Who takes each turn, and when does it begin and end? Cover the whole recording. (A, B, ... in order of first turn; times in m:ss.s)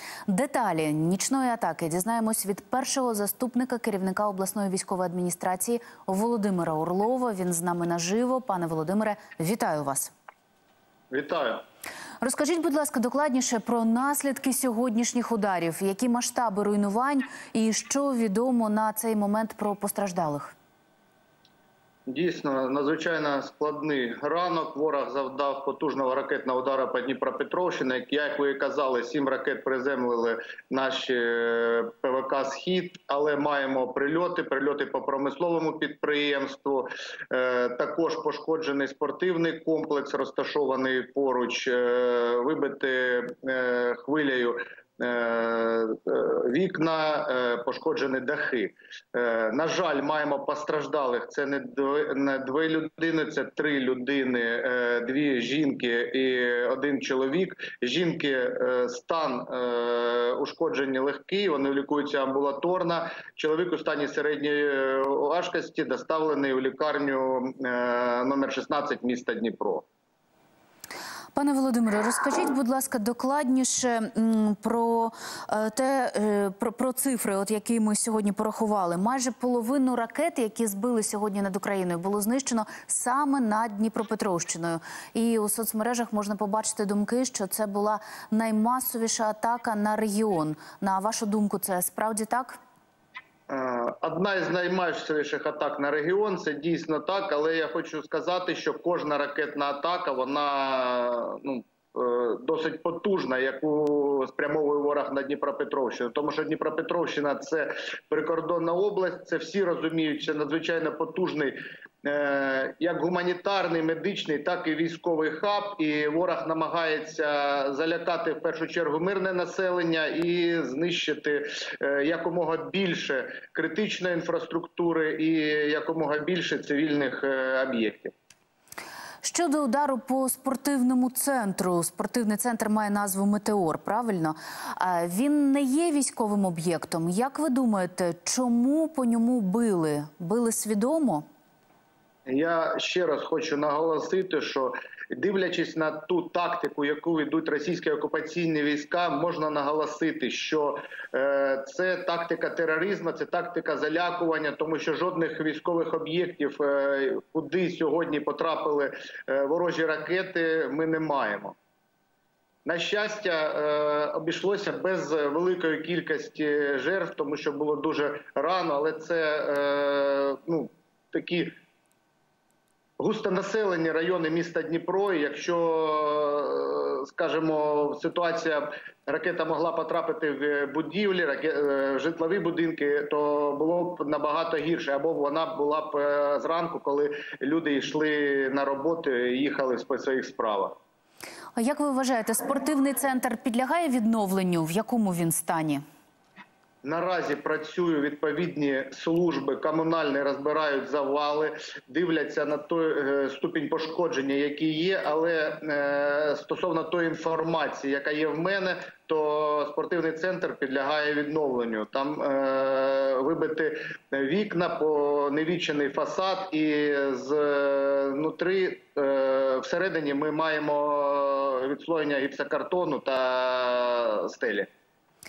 0:00.3-0:10.1 A
0:11.1-0:11.6 B
0:12.2-0:20.5 A
0:22.1-1:09.8 B
1:11.3-1:32.6 A
1:33.5-2:08.1 B
2:09.2-2:21.2 A
2:22.3-2:41.6 B
2:42.6-2:51.6 B
2:53.0-3:10.8 B
3:11.6-3:15.8 A
3:16.8-3:44.7 B